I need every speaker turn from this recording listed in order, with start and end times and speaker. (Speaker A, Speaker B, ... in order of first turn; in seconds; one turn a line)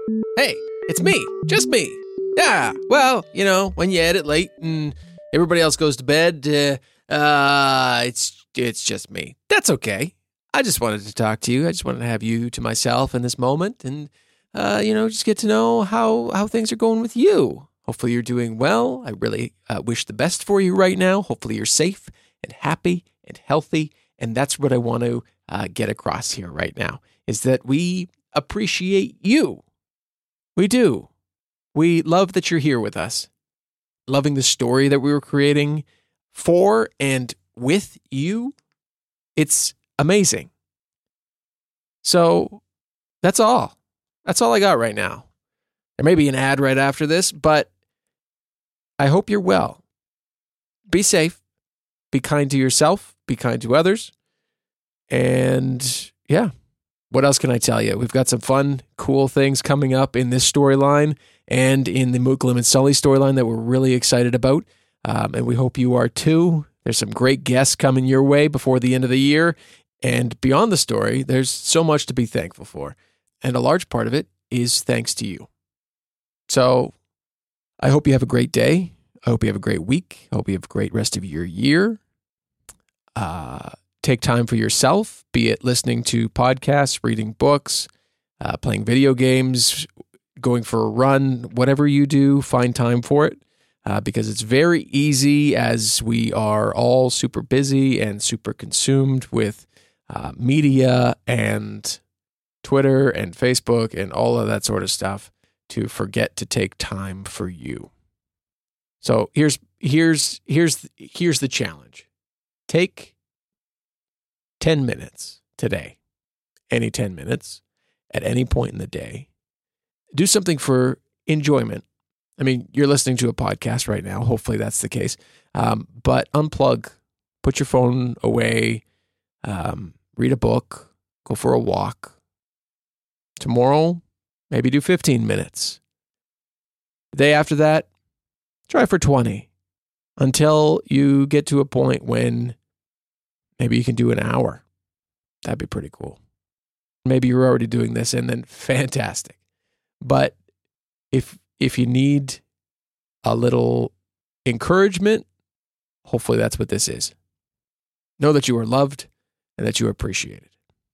Speaker A: 0.4-29.6
Speaker A: 30.6-31.1
Speaker A: 31.7-33.3
Speaker A: 34.1-38.5
Speaker A: 39.4-40.5
Speaker A: 42.0-42.6
Speaker A: 43.2-45.3
Speaker A: 46.0-47.7
Speaker A: 49.0-49.8
Speaker A: 50.9-51.4
Speaker A: 52.1-54.1
Speaker A: 55.1-56.5
Speaker A: 57.1-75.5
Speaker A: 76.5-76.9
Speaker A: 77.8-82.0
Speaker A: 83.2-87.9
Speaker A: 88.4-89.9
Speaker A: 90.4-102.0
Speaker A: 102.6-107.9
Speaker A: 109.0-112.1
Speaker A: 112.7-113.1
Speaker A: 114.6-116.0
Speaker A: 116.7-117.6
Speaker A: 118.1-119.3
Speaker A: 120.1-121.8
Speaker A: 122.4-128.8
Speaker A: 129.4-132.2
Speaker A: 133.4-135.8
Speaker A: 137.1-137.9
Speaker A: 138.7-139.5
Speaker A: 140.2-142.6
Speaker A: 143.6-144.6
Speaker A: 145.4-146.2
Speaker A: 147.1-149.4
Speaker A: 150.0-150.4
Speaker A: 151.1-152.4
Speaker A: 153.2-153.9
Speaker A: 154.4-155.3
Speaker A: 156.1-157.1
Speaker A: 158.2-160.5